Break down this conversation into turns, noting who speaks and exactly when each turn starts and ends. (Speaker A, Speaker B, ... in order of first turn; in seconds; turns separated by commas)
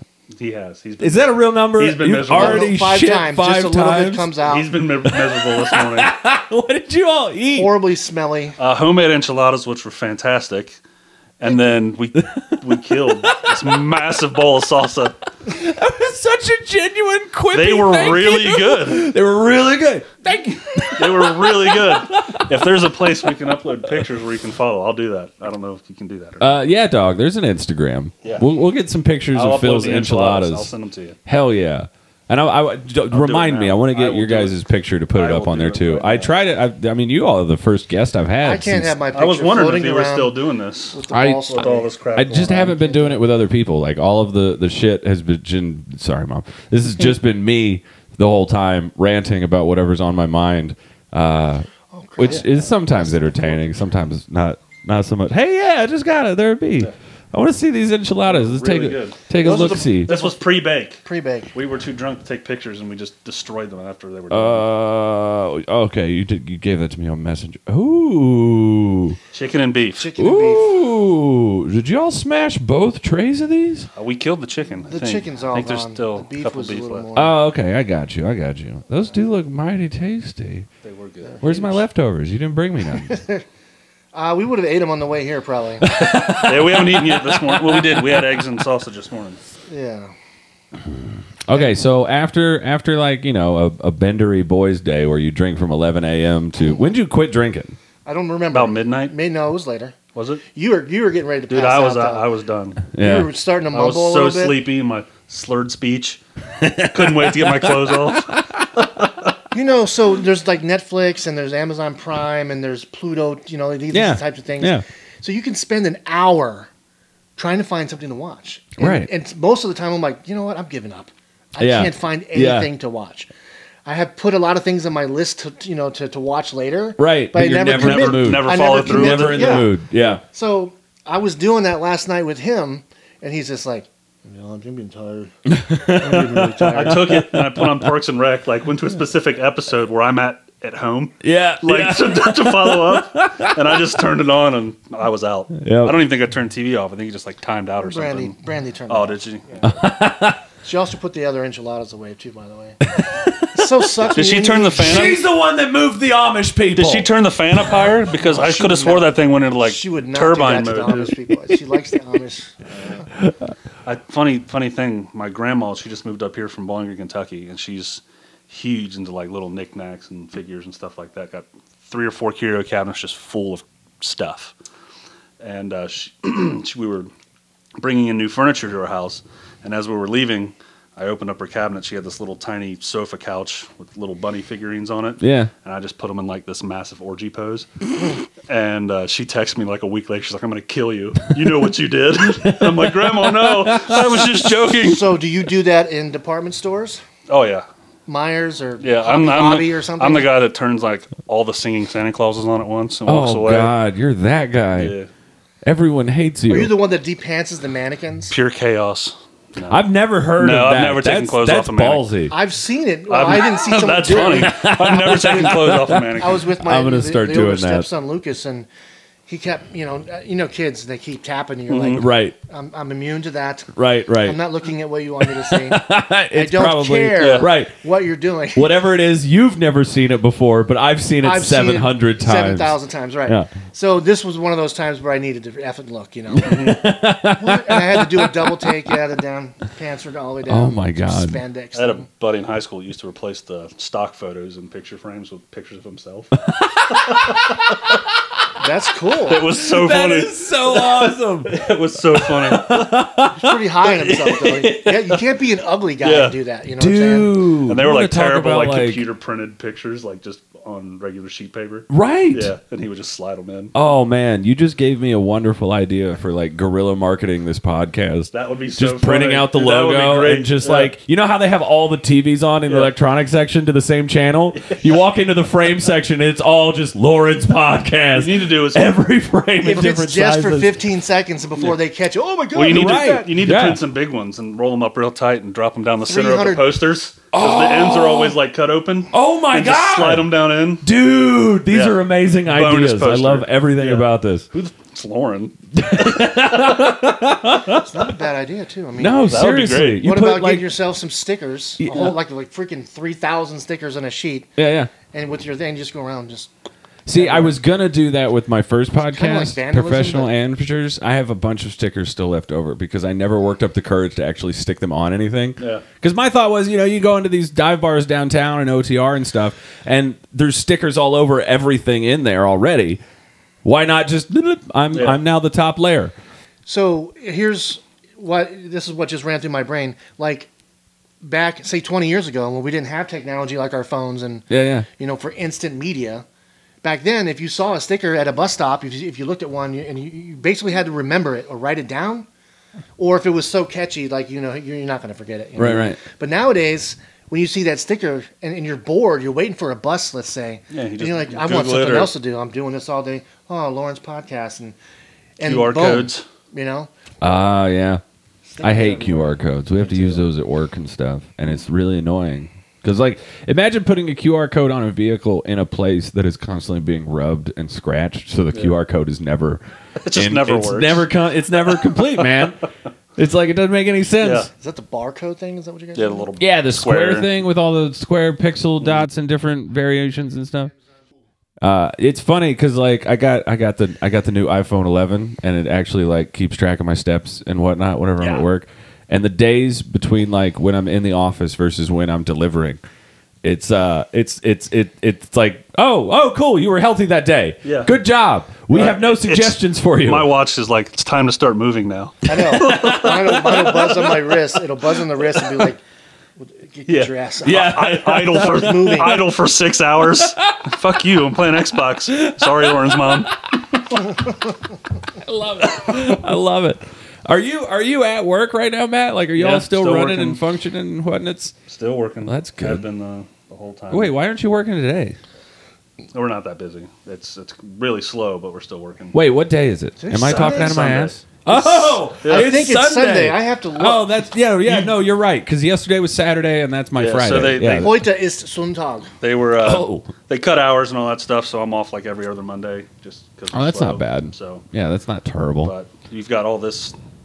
Speaker A: 0.4-2.7, Speaker B: 1.0-4.3, Speaker C: 2.3-4.7, Speaker A: 4.5-6.1, Speaker B: 5.0-7.7, Speaker C: 7.5-8.6, Speaker A: 8.6-10.8, Speaker A: 11.4-15.2, Speaker B: 12.2-12.6, Speaker B: 13.2-13.8, Speaker B: 15.4-22.6, Speaker A: 17.5-19.1, Speaker A: 20.9-26.5, Speaker B: 26.4-30.7, Speaker A: 29.3-31.2, Speaker B: 31.3-39.0, Speaker A: 33.1-34.6, Speaker A: 35.1-36.3, Speaker C: 38.4-40.4, Speaker A: 39.1-41.0, Speaker C: 40.9-43.2, Speaker B: 41.1-41.5, Speaker A: 41.5-42.7, Speaker B: 42.2-51.7, Speaker C: 51.9-53.8, Speaker B: 52.2-60.1, Speaker A: 58.3-61.0, Speaker C: 59.4-60.4, Speaker C: 61.0-61.5, Speaker A: 61.5-64.7, Speaker B: 64.3-69.2, Speaker A: 69.3-70.1, Speaker C: 70.0-70.8, Speaker B: 70.2-73.9, Speaker A: 74.0-77.0, Speaker C: 74.9-77.4, Speaker B: 77.2-80.7, Speaker A: 80.8-81.8, Speaker B: 81.4-83.2, Speaker C: 83.0-83.4, Speaker C: 84.1-86.0, Speaker B: 85.8-88.4, Speaker A: 86.1-89.4, Speaker C: 89.7-90.1, Speaker B: 90.9-97.8, Speaker C: 91.5-91.8, Speaker C: 98.0-100.0, Speaker A: 98.5-99.1, Speaker A: 100.2-100.4, Speaker C: 100.5-102.3, Speaker A: 101.5-102.9, Speaker B: 102.9-103.3, Speaker C: 103.0-104.6, Speaker A: 103.7-106.2, Speaker B: 106.6-108.7, Speaker A: 106.8-109.1, Speaker C: 109.5-116.7, Speaker B: 113.9-114.8, Speaker C: 117.4-123.3, Speaker B: 118.8-119.1, Speaker B: 121.6-122.7, Speaker C: 123.9-129.8, Speaker B: 127.0-130.2, Speaker A: 127.7-129.7, Speaker C: 130.3-137.1, Speaker B: 135.5-137.9, Speaker A: 136.7-148.4, Speaker B: 141.2-143.5, Speaker B: 145.6-146.0, Speaker C: 147.8-149.8, Speaker A: 148.9-149.5, Speaker B: 149.6-150.4, Speaker C: 150.6-152.9, Speaker B: 153.0-153.8, Speaker C: 153.5-155.2, Speaker A: 154.2-155.2, Speaker B: 154.8-157.8, Speaker A: 156.8-161.2, Speaker C: 158.2-163.0, Speaker B: 163.2-163.5, Speaker A: 163.8-174.5, Speaker A: 175.4-177.1, Speaker A: 177.8-195.1, Speaker B: 185.2-185.5, Speaker B: 192.4-194.5, Speaker C: 194.8-197.0, Speaker A: 197.3-197.7, Speaker C: 198.1-200.3, Speaker A: 198.8-203.7, Speaker B: 203.1-205.0, Speaker A: 204.8-205.1, Speaker B: 205.7-206.7, Speaker C: 206.5-208.3, Speaker A: 208.3-209.8, Speaker B: 209.7-212.3, Speaker A: 210.4-212.1, Speaker C: 212.3-218.7, Speaker A: 213.1-216.4, Speaker B: 214.2-217.9, Speaker C: 219.3-223.7, Speaker A: 221.7-222.1, Speaker B: 222.0-222.3, Speaker B: 223.8-224.4, Speaker C: 224.2-228.7, Speaker B: 225.2-227.7, Speaker A: 227.2-227.5, Speaker B: 228.6-233.5, Speaker C: 231.2-242.1, Speaker B: 236.4-238.7, Speaker A: 236.4-236.8, Speaker B: 240.5-241.4, Speaker A: 241.8-246.4, Speaker B: 246.5-247.6, Speaker A: 247.0-247.8, Speaker C: 248.6-249.4, Speaker A: 249.3-253.0, Speaker B: 249.6-251.5, Speaker B: 252.1-253.5, Speaker C: 253.3-257.4, Speaker A: 253.8-255.2, Speaker A: 256.0-256.4, Speaker B: 256.8-259.0, Speaker A: 257.7-263.7, Speaker B: 261.9-262.5, Speaker B: 263.7-280.8, Speaker A: 268.3-270.9, Speaker A: 272.7-272.9, Speaker A: 274.6-274.9, Speaker A: 278.1-279.0, Speaker C: 279.6-283.3, Speaker A: 282.5-290.8, Speaker B: 282.7-283.8, Speaker C: 286.1-286.7, Speaker B: 287.3-288.4, Speaker B: 289.1-290.3, Speaker B: 290.8-294.5, Speaker A: 291.7-295.6, Speaker B: 295.7-298.0, Speaker C: 297.7-299.4, Speaker B: 299.0-300.7, Speaker A: 299.3-300.1, Speaker C: 300.0-304.5, Speaker B: 301.8-302.2, Speaker B: 304.6-304.9, Speaker C: 305.1-306.5, Speaker B: 307.1-323.0, Speaker C: 307.1-307.6, Speaker C: 309.1-310.3, Speaker A: 315.6-315.9, Speaker B: 323.6-326.1, Speaker A: 324.9-325.2, Speaker C: 326.7-330.5, Speaker C: 331.2-336.2, Speaker B: 334.5-334.9, Speaker C: 336.8-342.3, Speaker C: 343.0-354.8, Speaker B: 345.6-346.0, Speaker A: 350.7-352.1, Speaker C: 355.4-356.9, Speaker A: 355.4-356.2, Speaker B: 357.2-358.0, Speaker C: 358.5-360.2, Speaker B: 358.6-369.6, Speaker A: 370.0-371.1, Speaker B: 370.1-372.6, Speaker A: 371.7-372.5, Speaker B: 373.2-374.5, Speaker A: 374.2-374.5, Speaker C: 374.6-376.3, Speaker A: 375.9-377.3, Speaker B: 376.4-380.7, Speaker B: 381.6-392.8, Speaker B: 393.4-400.3, Speaker A: 397.6-397.9, Speaker A: 398.7-404.3, Speaker C: 402.2-405.8, Speaker B: 402.4-403.3, Speaker C: 406.4-409.3, Speaker A: 406.9-414.1, Speaker B: 407.4-409.3, Speaker B: 410.2-410.6, Speaker B: 412.1-413.3, Speaker B: 415.1-421.6, Speaker A: 415.7-416.0, Speaker A: 419.4-420.4, Speaker A: 421.7-424.1, Speaker B: 422.2-422.9, Speaker B: 423.9-425.2, Speaker A: 426.1-429.2, Speaker B: 429.1-438.0, Speaker C: 430.0-434.2, Speaker A: 430.2-431.2, Speaker A: 432.2-432.6, Speaker A: 434.6-435.0, Speaker A: 436.9-437.9, Speaker C: 437.8-439.1, Speaker A: 439.2-444.6, Speaker B: 439.6-440.1, Speaker B: 443.5-445.7, Speaker A: 445.6-446.9